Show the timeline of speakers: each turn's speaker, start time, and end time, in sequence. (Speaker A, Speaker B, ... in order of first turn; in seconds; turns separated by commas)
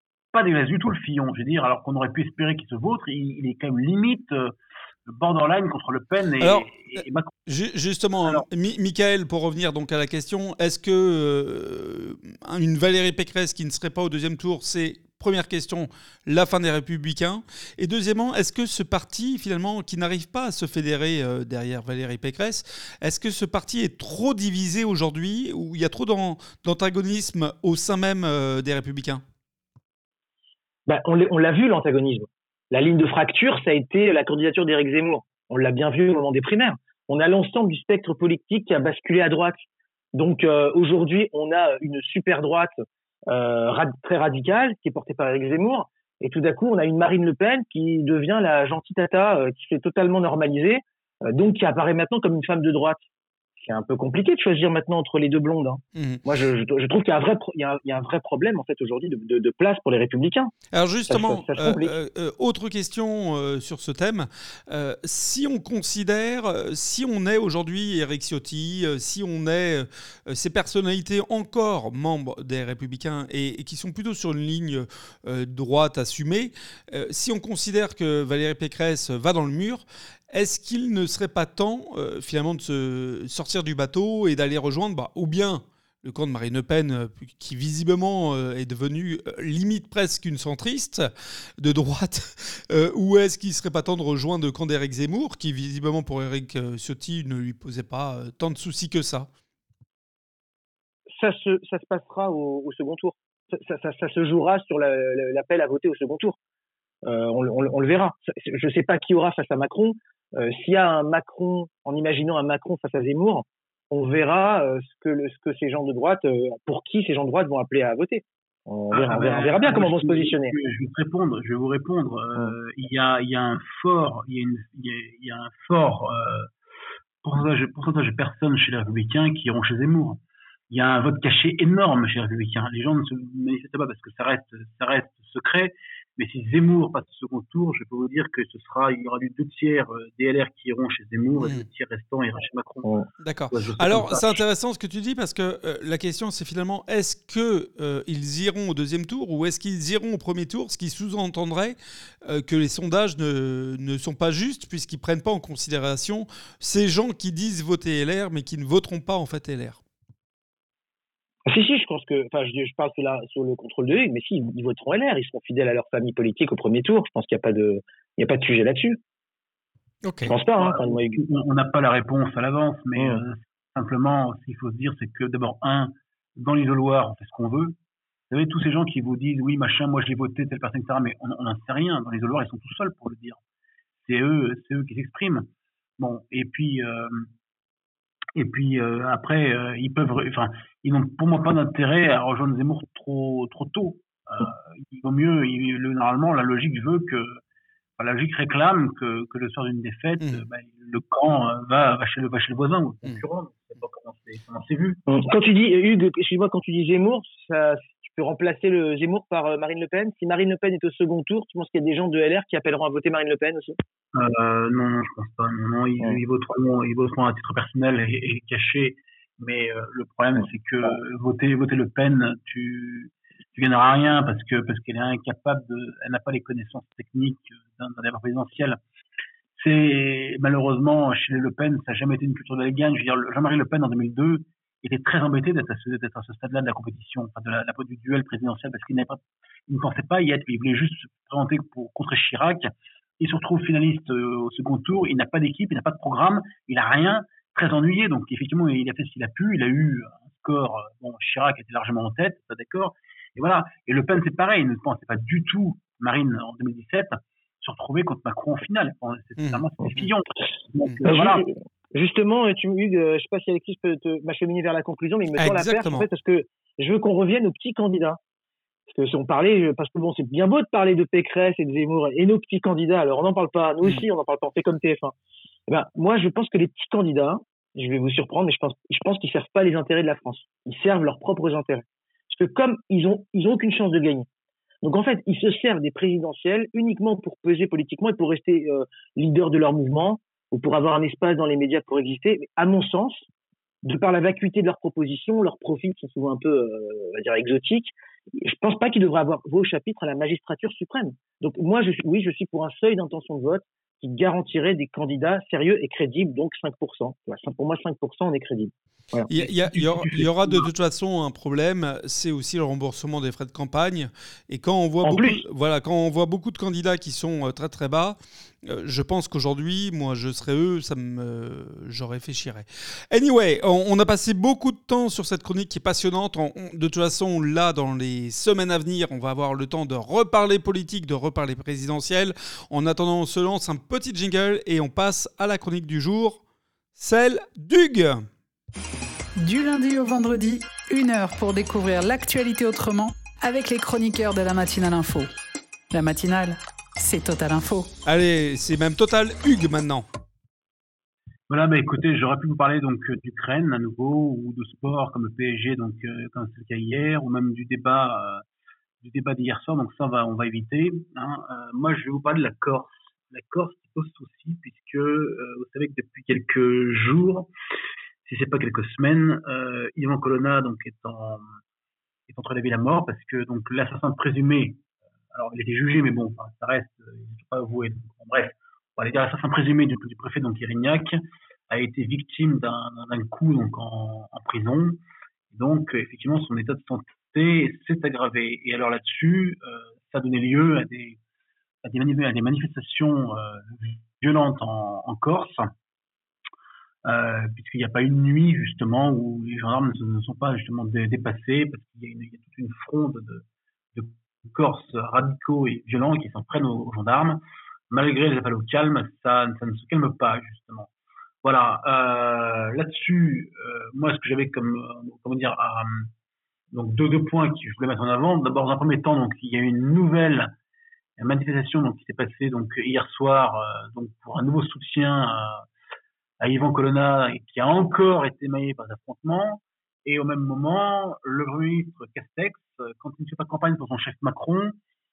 Speaker A: 0.3-4.5, Speaker A: 5.1-7.3, Speaker B: 6.4-6.7, Speaker B: 7.5-29.2, Speaker C: 30.9-39.6, Speaker C: 40.1-42.7, Speaker C: 43.3-53.0, Speaker C: 53.6-60.5, Speaker B: 56.0-56.2, Speaker B: 60.7-91.1, Speaker C: 61.1-61.9, Speaker B: 91.6-99.3, Speaker C: 101.1-106.4, Speaker C: 107.0-120.6, Speaker A: 118.9-126.5, Speaker A: 127.2-143.0, Speaker B: 143.2-159.8, Speaker A: 143.5-144.4, Speaker C: 161.5-169.0, Speaker B: 170.0-170.3, Speaker C: 170.2-171.2, Speaker A: 170.6-177.8, Speaker A: 178.3-183.4, Speaker A: 184.0-185.5, Speaker A: 186.0-187.3, Speaker A: 188.4-197.4, Speaker A: 198.0-205.0, Speaker B: 200.2-200.5, Speaker C: 205.1-213.8, Speaker A: 214.1-228.8, Speaker A: 229.6-242.7, Speaker A: 243.2-261.5, Speaker B: 259.4-260.1, Speaker C: 261.1-268.2, Speaker B: 265.4-266.1, Speaker C: 268.9-275.1, Speaker C: 275.7-284.3, Speaker C: 284.8-293.3, Speaker C: 293.8-309.3, Speaker B: 309.3-336.4, Speaker A: 309.4-310.7, Speaker A: 315.1-315.3, Speaker B: 337.0-338.3, Speaker D: 339.4-345.3, Speaker D: 345.9-347.9, Speaker B: 348.1-350.1, Speaker A: 351.5-358.4, Speaker A: 359.0-367.5, Speaker A: 368.2-371.4, Speaker A: 372.3-374.8, Speaker A: 375.3-381.2, Speaker A: 381.7-385.0, Speaker A: 385.5-391.2, Speaker A: 391.8-395.7, Speaker A: 397.1-410.9, Speaker A: 411.4-416.1, Speaker A: 416.7-420.5, Speaker A: 421.2-425.6, Speaker A: 426.4-434.8